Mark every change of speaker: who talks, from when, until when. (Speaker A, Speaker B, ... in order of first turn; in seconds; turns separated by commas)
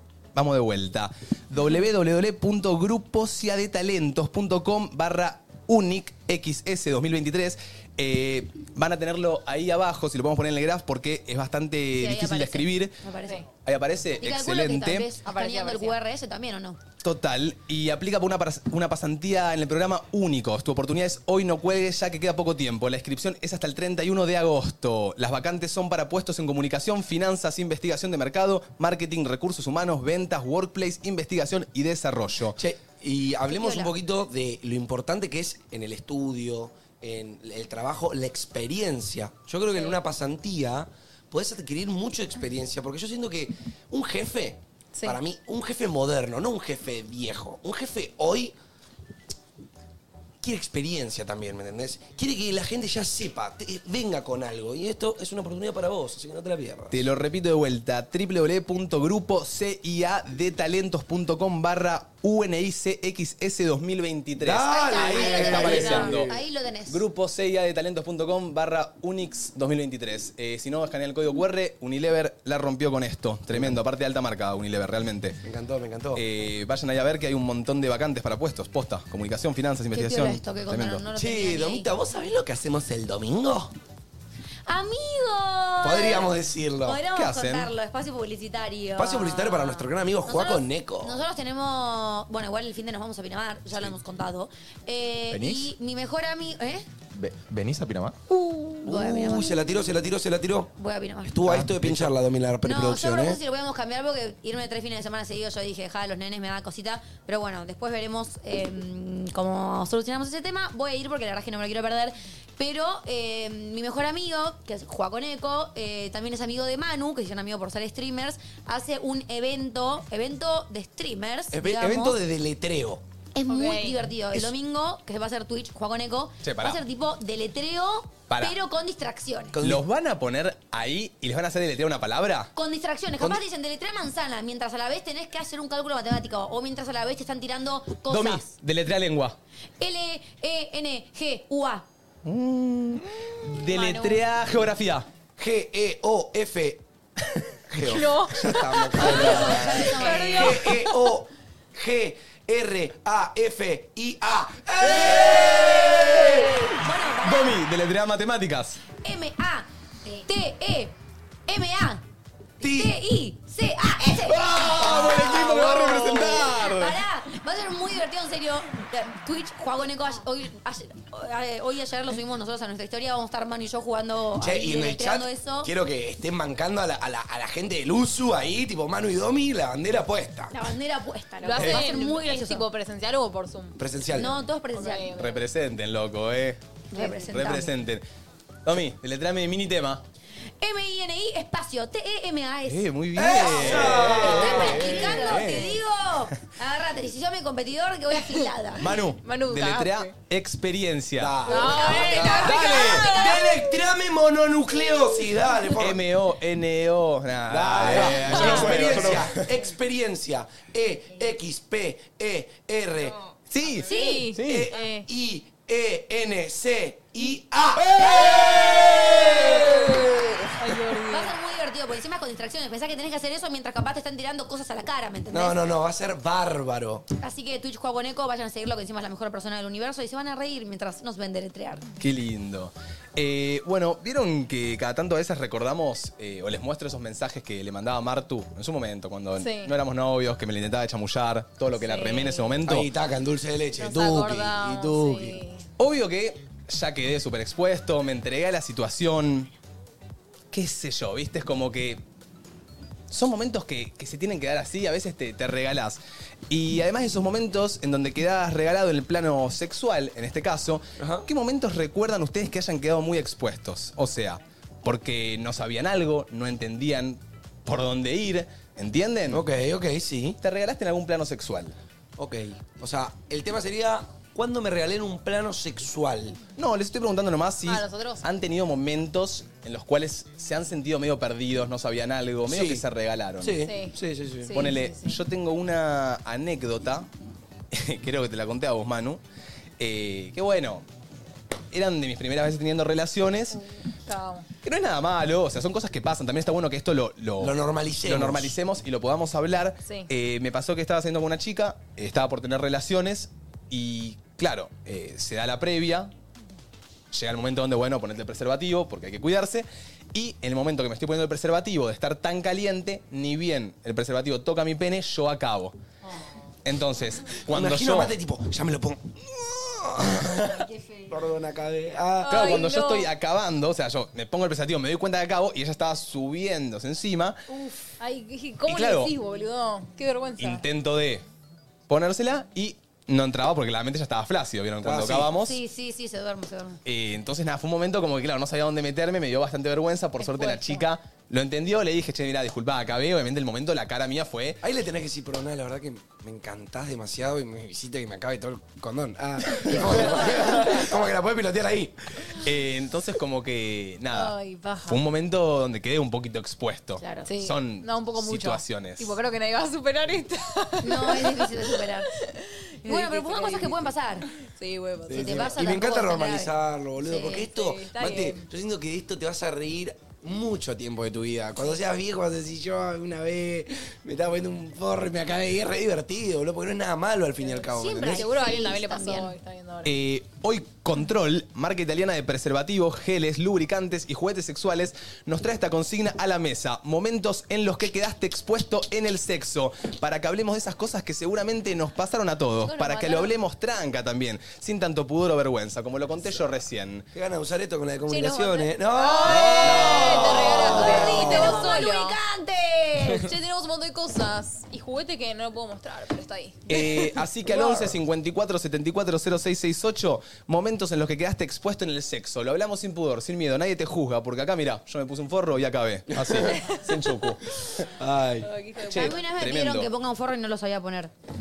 Speaker A: 0.3-13.0, Speaker B: 12.0-13.4, Speaker A: 13.6-15.1, Speaker B: 14.2-16.8, Speaker C: 15.2-16.0, Speaker A: 17.0-32.5, Speaker D: 32.5-48.5, Speaker B: 33.5-33.9, Speaker D: 50.4-57.1, Speaker A: 56.9-66.3, Speaker D: 64.4-66.3, Speaker B: 64.7-67.0, Speaker A: 66.9-75.4, Speaker D: 73.5-73.8, Speaker D: 75.4-76.2, Speaker A: 76.1-81.0, Speaker B: 79.9-81.9, Speaker D: 81.1-83.7, Speaker B: 84.7-96.8, Speaker D: 85.8-87.0, Speaker A: 87.1-87.7, Speaker D: 89.0-91.2, Speaker E: 95.3-95.7, Speaker E: 97.1-98.2, Speaker B: 98.3-99.7, Speaker D: 98.8-100.7, Speaker B: 100.8-101.5, Speaker D: 101.2-103.4, Speaker E: 101.5-102.1, Speaker B: 102.6-122.2, Speaker D: 121.5-123.0, Speaker B: 123.3-129.6, Speaker C: 123.5-124.0, Speaker A: 126.4-126.8, Speaker A: 128.3-128.6, Speaker D: 129.5-129.8, Speaker A: 129.6-132.5, Speaker B: 132.5-138.5, Speaker A: 138.1-139.4, Speaker B: 139.8-141.8, Speaker A: 142.2-145.1, Speaker C: 143.7-144.2, Speaker D: 145.4-146.8, Speaker D: 147.7-156.7, Speaker C: 147.8-151.0, Speaker B: 149.0-150.7, Speaker A: 149.4-149.7, Speaker A: 154.8-156.3, Speaker B: 155.3-157.6, Speaker A: 157.2-158.8, Speaker B: 158.9-159.7, Speaker B: 160.2-160.9, Speaker B: 161.5-162.0, Speaker D: 162.6-162.9, Speaker B: 162.6-175.7, Speaker A: 164.0-167.0, Speaker D: 164.8-165.3, Speaker D: 174.4-180.5, Speaker B: 180.5-182.7, Speaker C: 181.4-183.8, Speaker A: 181.6-181.9, Speaker D: 183.8-184.3, Speaker B: 184.1-185.1, Speaker C: 184.7-185.4, Speaker A: 185.2-186.6, Speaker B: 186.9-187.7, Speaker C: 186.9-187.3, Speaker A: 187.2-188.0, Speaker A: 188.6-190.0, Speaker B: 190.6-192.9, Speaker A: 192.7-195.8, Speaker D: 193.1-195.4, Speaker B: 193.6-198.9, Speaker A: 198.8-201.5, Speaker C: 199.2-200.1, Speaker D: 201.2-206.0, Speaker C: 201.5-203.6, Speaker B: 201.5-203.4, Speaker A: 202.2-203.0, Speaker A: 205.8-209.5, Speaker D: 207.5-213.2, Speaker C: 208.2-208.8, Speaker A: 213.5-214.7, Speaker B: 213.8-214.3, Speaker C: 213.8-215.1, Speaker D: 214.4-220.3, Speaker B: 218.0-219.3, Speaker C: 220.6-221.3, Speaker B: 221.1-225.6, Speaker D: 225.3-227.1, Speaker B: 227.2-231.8, Speaker A: 232.0-242.9, Speaker C: 239.4-239.7, Speaker C: 241.8-242.6, Speaker D: 242.6-245.4, Speaker C: 243.8-245.6, Speaker A: 245.8-249.5, Speaker A: 250.5-252.0, Speaker A: 253.1-269.4, Speaker D: 261.0-261.3, Speaker D: 269.3-270.4, Speaker A: 270.4-271.8, Speaker D: 272.2-276.4, Speaker A: 276.6-283.6, Speaker C: 277.6-278.3, Speaker D: 282.4-282.8, Speaker D: 283.4-284.6, Speaker C: 283.6-285.2, Speaker A: 284.5-287.1, Speaker A: 287.7-289.2, Speaker A: 289.8-290.8, Speaker A: 291.7-293.6, Speaker C: 293.5-294.5, Speaker A: 294.6-306.1, Speaker D: 297.4-298.5, Speaker A: 307.1-315.7, Speaker A: 316.6-318.1, Speaker D: 317.5-322.6, Speaker C: 322.2-323.1, Speaker A: 322.3-327.4, Speaker B: 327.5-327.9, Speaker C: 328.0-330.6, Speaker A: 328.7-329.1, Speaker A: 330.4-331.2, Speaker A: 331.9-335.6, Speaker D: 334.8-335.3, Speaker B: 335.3-336.8, Speaker A: 336.8-344.6, Speaker C: 340.2-340.8, Speaker D: 344.6-351.9, Speaker A: 349.5-350.1, Speaker A: 352.3-354.3, Speaker C: 354.1-355.0, Speaker A: 354.8-359.1, Speaker B: 357.0-357.2, Speaker C: 357.2-365.6, Speaker B: 360.8-362.1, Speaker B: 362.9-364.2, Speaker B: 365.1-367.5, Speaker D: 365.1-378.3, Speaker C: 367.5-368.5, Speaker C: 377.4-379.9, Speaker B: 377.7-379.3, Speaker A: 379.8-397.1, Speaker B: 392.6-393.3, Speaker D: 397.1-401.7, Speaker C: 398.1-402.1, Speaker A: 399.2-401.2, Speaker B: 399.2-403.3, Speaker C: 403.2-406.9, Speaker A: 406.7-417.8, Speaker D: 407.5-407.9, Speaker D: 416.1-416.6, Speaker C: 416.5-416.8, Speaker D: 418.0-418.5, Speaker C: 418.4-419.2, Speaker A: 418.9-419.9, Speaker B: 418.9-421.1